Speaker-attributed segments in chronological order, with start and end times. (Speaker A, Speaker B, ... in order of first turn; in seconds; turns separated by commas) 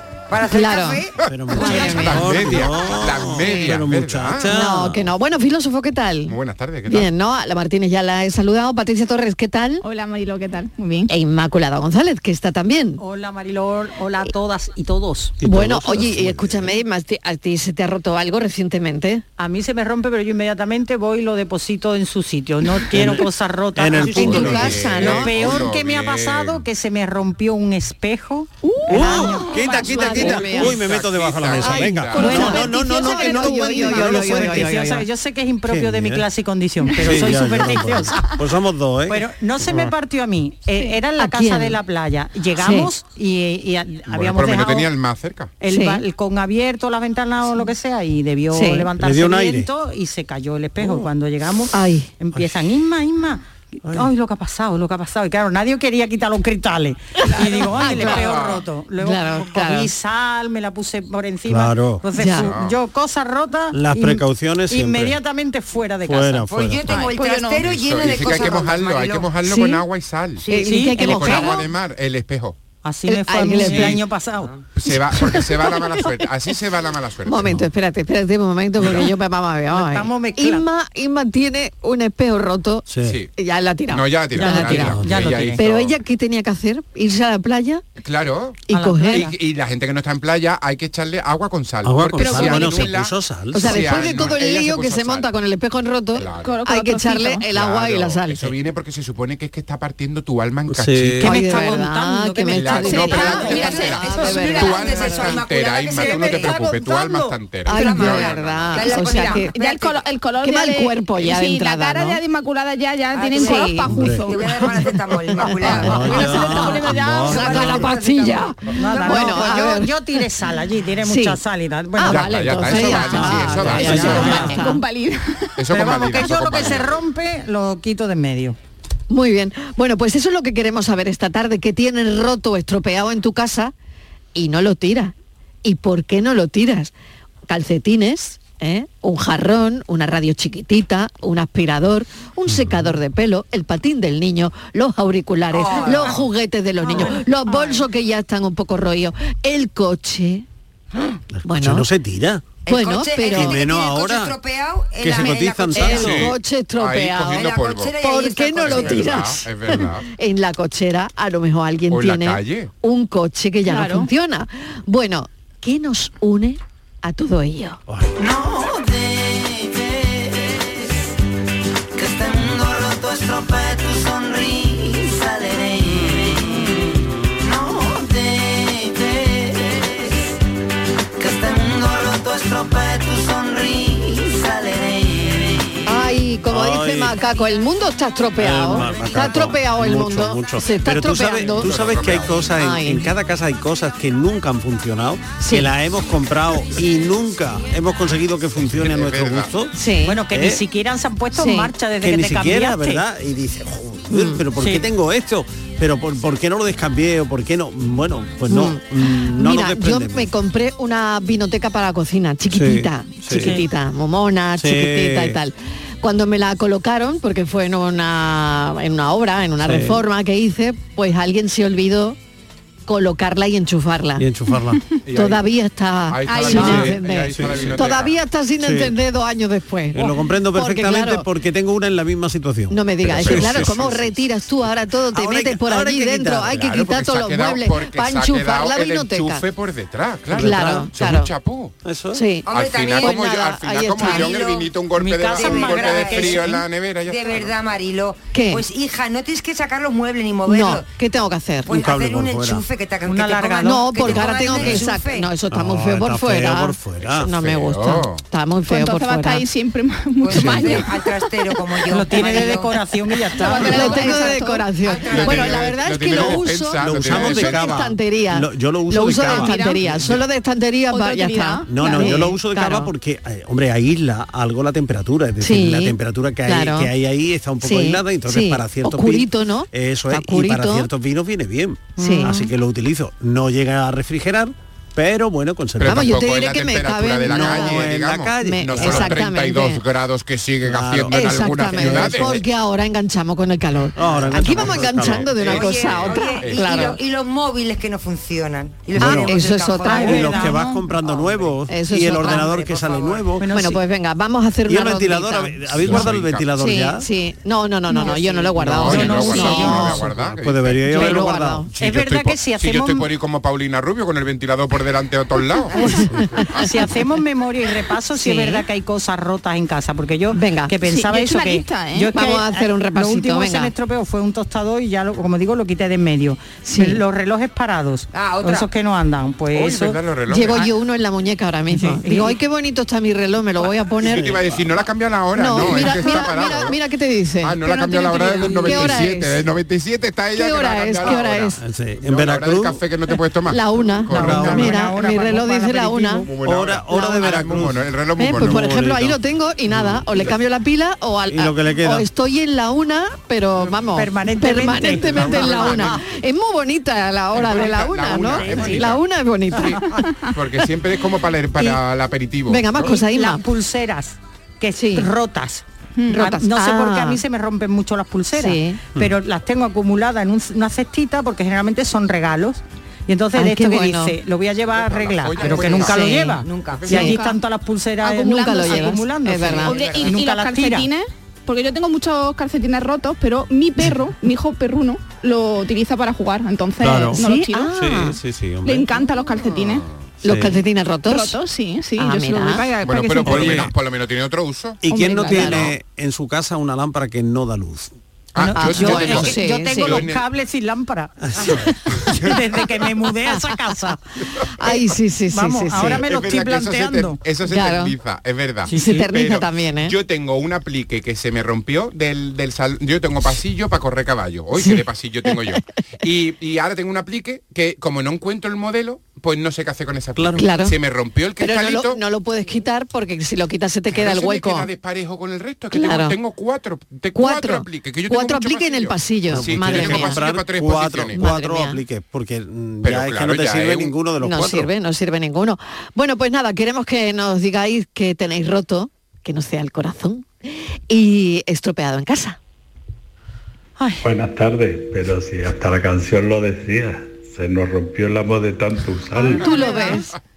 Speaker A: 0.3-1.1, Speaker B: 0.5-2.5, Speaker C: 1.2-4.6, Speaker D: 1.3-5.1, Speaker B: 3.5-3.7, Speaker B: 4.5-6.4, Speaker C: 6.3-7.1, Speaker B: 6.9-9.8, Speaker E: 9.8-11.1, Speaker B: 11.1-13.0, Speaker F: 13.0-15.4, Speaker D: 15.4-16.7, Speaker B: 15.4-19.2, Speaker F: 19.4-29.5, Speaker D: 22.9-24.8, Speaker B: 24.0-25.4, Speaker C: 24.1-26.6, Speaker E: 28.7-30.2, Speaker D: 28.9-34.8, Speaker B: 29.0-30.8, Speaker C: 30.6-32.4, Speaker B: 31.6-35.1, Speaker F: 32.2-32.6, Speaker E: 32.2-33.9, Speaker F: 33.9-38.4, Speaker D: 35.7-36.2, Speaker D: 37.0-39.9, Speaker F: 39.1-44.9, Speaker B: 41.1-41.8, Speaker B: 42.6-42.9, Speaker C: 44.1-45.5, Speaker F: 45.6-67.0, Speaker B: 45.7-46.0, Speaker B: 48.5-48.9, Speaker D: 49.0-49.7, Speaker B: 51.7-52.1, Speaker D: 53.9-54.1, Speaker B: 57.3-58.4, Speaker C: 57.9-58.6, Speaker B: 59.0-59.9, Speaker D: 61.5-62.1, Speaker B: 62.1-62.5, Speaker C: 62.3-62.8, Speaker D: 63.7-65.2, Speaker D: 66.0-66.9, Speaker A: 66.6-69.3, Speaker E: 67.0-67.7, Speaker C: 67.6-72.6, Speaker B: 69.4-69.8, Speaker B: 70.5-71.6, Speaker F: 70.5-71.6, Speaker F: 72.8-74.5, Speaker B: 73.1-74.0, Speaker C: 73.7-74.0, Speaker C: 74.8-77.7, Speaker B: 75.5-75.9, Speaker B: 77.3-85.0, Speaker F: 79.7-80.7, Speaker D: 82.9-83.2, Speaker C: 83.0-83.3, Speaker C: 83.9-86.0, Speaker F: 84.4-85.6, Speaker D: 84.8-85.4, Speaker B: 85.6-87.8, Speaker C: 88.0-95.3, Speaker B: 88.7-89.3, Speaker F: 88.7-89.3, Speaker D: 91.8-94.3, Speaker B: 92.3-92.8, Speaker B: 93.5-98.5, Speaker C: 96.2-96.6, Speaker E: 96.4-97.5, Speaker C: 97.5-101.3, Speaker D: 100.7-101.3, Speaker F: 101.2-103.7, Speaker B: 101.2-105.4, Speaker C: 102.5-109.0, Speaker A: 103.3-106.7, Speaker E: 103.4-103.9, Speaker F: 106.1-107.2, Speaker B: 107.7-109.6, Speaker A: 107.7-110.0, Speaker E: 109.1-114.9, Speaker B: 110.4-112.2, Speaker A: 113.1-116.7, Speaker B: 113.4-114.8, Speaker D: 113.9-114.3, Speaker B: 115.3-120.0, Speaker E: 115.6-118.5, Speaker D: 115.8-117.9, Speaker A: 117.3-119.4, Speaker F: 118.8-123.0, Speaker B: 121.0-121.4, Speaker B: 122.0-124.8, Speaker C: 122.1-124.5, Speaker D: 123.1-124.5, Speaker F: 123.9-124.5, Speaker E: 124.3-125.6, Speaker C: 125.6-127.0, Speaker F: 125.7-128.6, Speaker B: 129.1-133.7, Speaker B: 134.3-136.9, Speaker B: 137.5-150.4, Speaker D: 142.5-143.0, Speaker A: 145.5-146.2, Speaker E: 146.8-147.8, Speaker D: 151.3-152.6, Speaker B: 151.4-151.9, Speaker A: 152.6-156.1, Speaker B: 152.7-153.7, Speaker D: 153.3-154.4, Speaker D: 155.0-156.3, Speaker B: 155.2-167.8, Speaker C: 155.9-158.0, Speaker A: 157.3-159.2, Speaker C: 158.5-160.1, Speaker C: 161.9-162.7, Speaker E: 163.7-164.1, Speaker G: 168.2-170.3, Speaker G: 172.0-175.9, Speaker D: 176.0-176.2, Speaker G: 177.5-179.8, Speaker G: 181.2-185.2, Speaker B: 185.8-191.7, Speaker D: 186.5-187.2, Speaker D: 188.4-199.7, Speaker C: 191.5-192.4, Speaker B: 192.6-193.1, Speaker B: 195.4-195.7, Speaker C: 198.6-199.5, Speaker B: 199.7-200.2, Speaker F: 200.0-203.0, Speaker D: 200.3-200.6, Speaker B: 201.3-201.7, Speaker D: 201.9-210.3, Speaker B: 204.1-204.4, Speaker F: 204.6-204.8, Speaker B: 208.5-222.2, Speaker D: 212.5-213.6, Speaker F: 213.3-213.6, Speaker D: 214.6-215.4, Speaker D: 219.6-220.1, Speaker B: 222.9-224.3, Speaker D: 224.2-224.8, Speaker C: 225.1-225.5, Speaker B: 225.1-231.3, Speaker C: 226.1-228.2, Speaker E: 226.2-226.9, Speaker D: 227.3-227.9, Speaker D: 228.6-228.9, Speaker D: 229.9-234.2, Speaker B: 232.7-239.4, Speaker C: 233.2-234.0, Speaker D: 235.1-236.7, Speaker C: 236.5-241.7, Speaker D: 240.3-240.9, Speaker B: 240.3-241.3, Speaker D: 241.8-242.3, Speaker B: 242.1-244.4, Speaker A: 242.4-243.3, Speaker C: 242.5-247.6, Speaker A: 244.0-244.7, Speaker F: 244.9-246.6, Speaker A: 245.3-246.6, Speaker A: 247.1-250.9, Speaker B: 248.3-248.7, Speaker B: 250.5-251.8, Speaker A: 251.7-255.3, Speaker D: 251.7-252.7, Speaker F: 253.1-254.2, Speaker B: 253.6-259.4, Speaker D: 255.5-257.3, Speaker C: 257.3-258.2, Speaker E: 258.7-261.3, Speaker A: 260.2-262.7, Speaker F: 261.9-264.3, Speaker E: 263.3-264.8, Speaker B: 263.6-272.9, Speaker A: 264.8-265.7, Speaker C: 265.1-267.9, Speaker D: 266.8-270.2, Speaker E: 269.2-269.9, Speaker E: 270.9-272.3, Speaker D: 271.7-286.2, Speaker B: 275.4-276.9, Speaker B: 277.6-280.9, Speaker F: 282.0-282.4, Speaker B: 282.0-282.5, Speaker C: 285.8-292.4, Speaker B: 285.8-289.8, Speaker D: 287.3-289.3, Speaker D: 290.6-292.4, Speaker B: 291.1-297.0, Speaker D: 293.9-295.5, Speaker C: 294.5-297.0, Speaker A: 295.5-300.3, Speaker D: 299.0-299.4, Speaker B: 299.0-300.6, Speaker F: 299.8-301.5, Speaker D: 300.0-303.5, Speaker B: 301.7-302.6, Speaker F: 302.2-302.6, Speaker A: 302.3-303.3, Speaker F: 303.4-303.8, Speaker B: 303.5-310.1, Speaker D: 304.7-307.1, Speaker C: 305.8-306.5, Speaker F: 307.9-309.9, Speaker C: 308.6-311.0, Speaker D: 308.9-309.2, Speaker D: 309.8-311.9, Speaker B: 310.9-311.7, Speaker F: 311.8-313.1, Speaker C: 311.8-316.0, Speaker F: 316.6-330.0, Speaker B: 318.1-318.6, Speaker B: 320.3-320.8, Speaker E: 320.8-322.2, Speaker B: 322.1-323.7, Speaker B: 326.6-327.0, Speaker A: 328.1-328.7, Speaker C: 329.5-330.7, Speaker B: 330.3-334.4, Speaker F: 331.7-332.4, Speaker C: 334.0-336.8, Speaker D: 334.2-334.5, Speaker B: 335.3-339.4, Speaker C: 337.4-344.6, Speaker D: 338.4-339.1, Speaker B: 340.4-341.6, Speaker D: 341.6-342.8, Speaker B: 343.5-346.3, Speaker F: 344.1-346.3, Speaker D: 344.2-344.7, Speaker C: 346.2-348.6, Speaker D: 346.4-349.2, Speaker B: 346.9-347.4, Speaker B: 348.2-359.8, Speaker D: 349.7-350.3, Speaker D: 351.3-352.1, Speaker F: 353.9-356.0, Speaker C: 354.9-356.0, Speaker C: 357.3-362.9, Speaker F: 358.4-358.7, Speaker E: 359.9-360.3, Speaker B: 362.5-363.4, Speaker F: 362.8-380.9, Speaker B: 364.8-365.1, Speaker E: 366.0-366.2, Speaker B: 366.1-367.2, Speaker B: 368.3-368.9, Speaker B: 373.4-374.2, Speaker C: 374.7-376.1, Speaker B: 375.8-377.2, Speaker A: 376.4-376.9, Speaker E: 376.9-377.4, Speaker B: 378.0-379.8, Speaker E: 378.3-378.6, Speaker E: 379.6-387.8, Speaker D: 386.8-389.0, Speaker B: 387.1-388.2, Speaker E: 388.6-389.9, Speaker C: 389.6-389.9, Speaker B: 390.2-391.4, Speaker D: 390.2-390.6, Speaker E: 391.1-393.7, Speaker B: 392.0-392.7, Speaker C: 392.8-394.8, Speaker D: 393.3-393.7, Speaker D: 394.8-397.9, Speaker E: 394.9-395.7, Speaker B: 395.2-395.7, Speaker C: 395.4-395.7, Speaker C: 398.3-400.2, Speaker F: 398.4-404.0, Speaker B: 398.6-400.1, Speaker D: 401.2-401.7, Speaker B: 404.6-406.1, Speaker F: 405.3-407.2, Speaker C: 406.0-422.0, Speaker B: 407.5-407.9, Speaker F: 408.7-409.0, Speaker B: 408.7-409.9, Speaker B: 414.5-415.4, Speaker D: 420.1-420.6, Speaker B: 420.4-420.8, Speaker B: 421.4-424.7, Speaker C: 423.9-431.2, Speaker B: 425.7-426.2, Speaker B: 427.1-430.2, Speaker D: 429.3-434.7, Speaker B: 431.1-431.8, Speaker C: 432.8-434.0, Speaker B: 434.2-440.3, Speaker B: 440.9-442.4, Speaker F: 443.8-444.0, Speaker H: 444.0-449.4, Speaker B: 449.4-450.1, Speaker E: 449.5-450.0